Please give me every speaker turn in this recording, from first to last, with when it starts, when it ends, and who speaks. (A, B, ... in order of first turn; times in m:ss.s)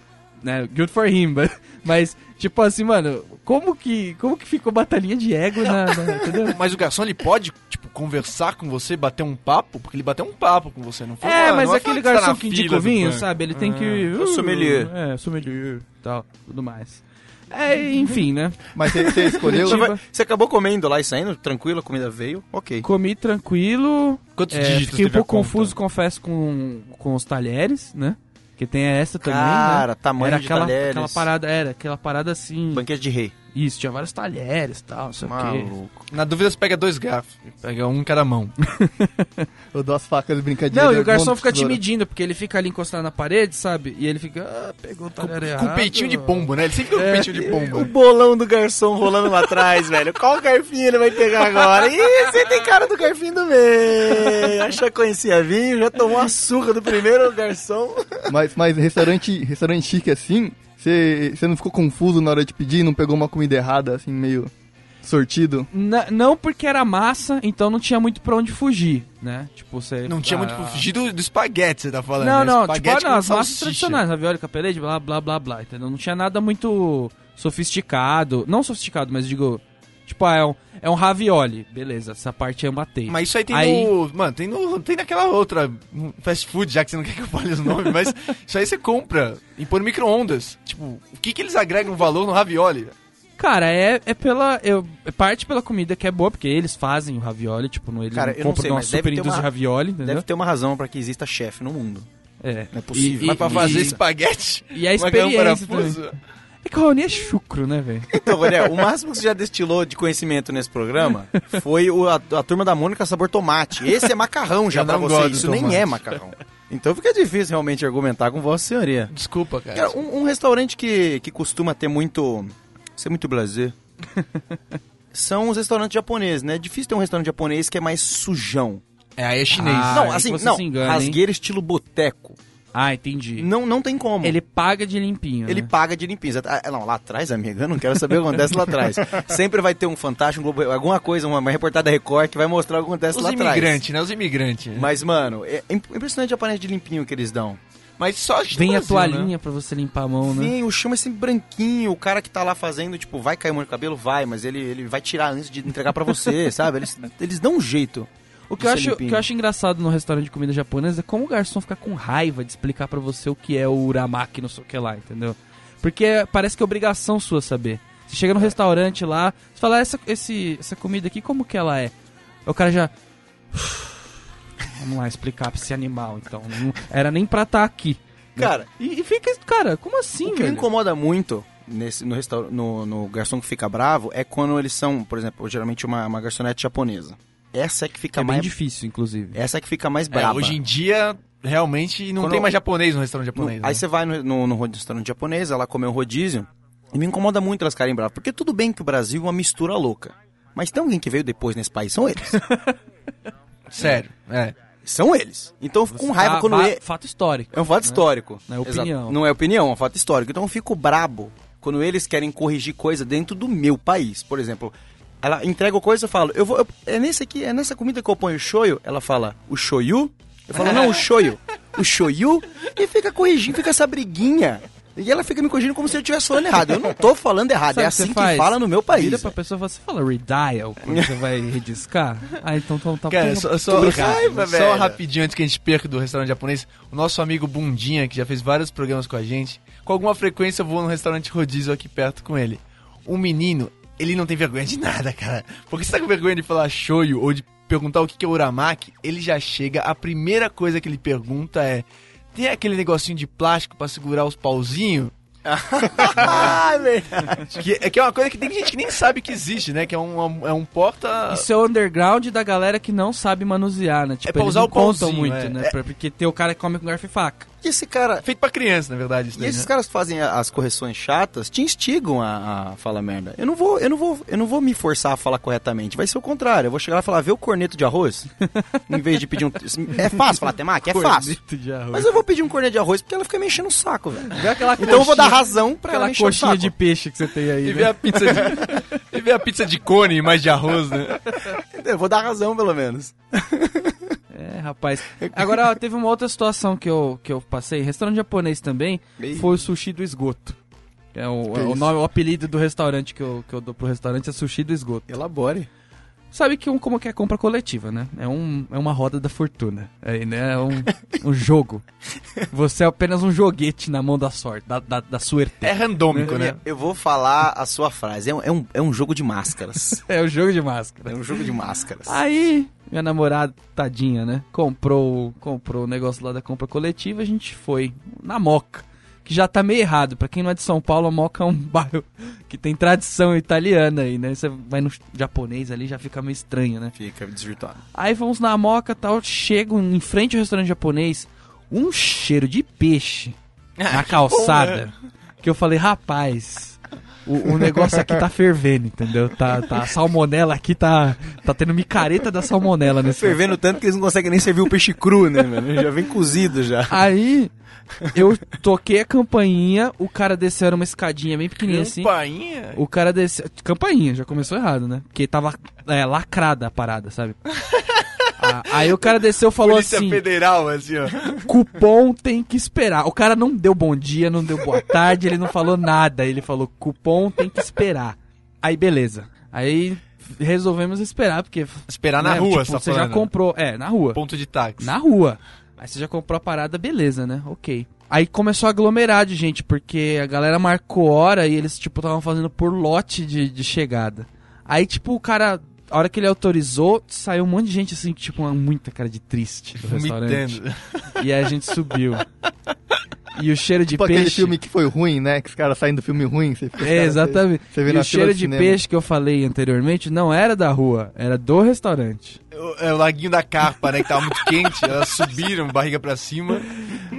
0:00.4-0:06.6 A
0:06.4-0:14.1 B
0:11.2-0:20.0 A
0:14.1-0:14.9 C
0:18.7-0:19.9 D
0:19.3-0:22.8 C
0:22.8-0:32.8 A
0:24.4-0:25.7 B
0:29.2-0:31.2 C
0:32.7-0:33.3 C
0:33.5-0:35.7 A
0:35.2-0:36.1 C
0:36.1-0:38.5 B
0:38.6-0:39.5 A
0:39.7-0:41.8 D
0:40.7-0:47.6 A
0:45.2-0:47.9 B
0:47.3-0:58.3 C
0:58.3-1:04.5 D
1:05.0-1:05.7 D
1:05.7-1:10.8 A
1:10.1-1:14.0 B
1:12.2-1:23.9 A
1:23.1-1:32.9 B
1:33.4-1:40.2 A
1:38.1-1:39.5 C
1:40.0-1:42.1 C
1:42.4-1:44.0 A
1:42.7-1:44.0 C
1:43.2-1:46.2 B
1:44.7-1:46.0 A
1:46.6-1:48.1 A
1:48.1-1:59.1 C
1:54.7-1:56.0 B
1:59.1-2:00.0 B
1:59.7-2:03.7 C
2:05.1-2:08.8 C
2:09.2-2:10.2 B
2:09.5-2:11.2 A
2:09.9-2:12.4 C
2:12.7-2:13.5 A
2:13.4-2:14.4 C
2:14.2-2:15.7 A
2:15.4-2:23.8 C
2:23.1-2:24.9 B
2:24.7-2:27.6 C
2:28.0-2:29.3 B
2:28.5-2:30.5 A
2:30.2-2:39.2 C
2:38.5-2:51.9 A
2:52.4-2:52.9 A
2:53.5-2:54.0 A
2:54.7-3:00.7 A
2:58.4-2:58.7 C
3:00.2-3:08.5 C
3:08.1-3:09.4 A
3:09.3-3:10.6 C
3:10.1-3:13.8 B
3:12.2-3:12.5 C
3:13.4-3:22.4 C
3:22.4-3:22.7 A
3:23.7-3:24.5 B
3:24.8-3:26.8 C
3:25.9-3:29.2 A
3:27.5-3:49.3 C
3:40.6-3:40.9 A
3:40.6-3:40.9 B
3:47.7-3:54.3 A
3:50.8-3:51.1 C
3:53.1-4:15.1 B
3:53.7-3:55.0 C
4:15.4-4:17.5 C
4:16.0-4:16.6 B
4:17.5-4:21.5 B
4:21.3-4:27.5 A
4:24.2-4:25.7 B
4:27.6-4:28.2 C
4:28.2-4:29.7 B
4:29.4-4:38.3 C
4:38.5-4:38.8 A
4:38.9-4:41.4 C
4:40.0-4:40.3 A
4:40.9-4:42.1 A
4:41.9-4:46.7 C
4:44.3-4:48.9 A
4:47.6-4:51.3 B
4:51.6-4:54.2 C
4:54.3-5:00.6 A
4:59.2-4:59.5 C
5:01.1-5:05.1 A
5:05.1-5:05.7 C
5:06.3-5:11.8 A
5:12.5-5:16.4 A
5:15.6-5:16.6 B
5:16.2-5:20.0 C
5:20.0-5:21.4 A
5:21.1-5:22.2 C
5:22.0-5:36.9 A
5:37.0-5:37.8 C
5:37.9-5:43.4 A
5:43.8-5:44.8 B
5:43.9-5:53.4 A
5:53.1-5:57.0 C
5:56.9-5:57.5 A
5:58.1-6:02.1 A
6:01.6-6:02.8 B
6:02.7-6:07.4 A
6:07.6-6:08.3 B
6:08.4-6:10.2 A
6:08.8-6:11.5 B
6:11.4-6:24.2 A
6:21.9-6:23.3 B
6:24.1-6:25.0 B
6:24.8-6:40.6 A
6:39.8-6:41.2 B
6:41.2-6:42.2 A
6:43.3-6:44.6 A
6:43.9-6:48.8 D
6:46.8-6:52.4 A
6:52.5-6:56.7 B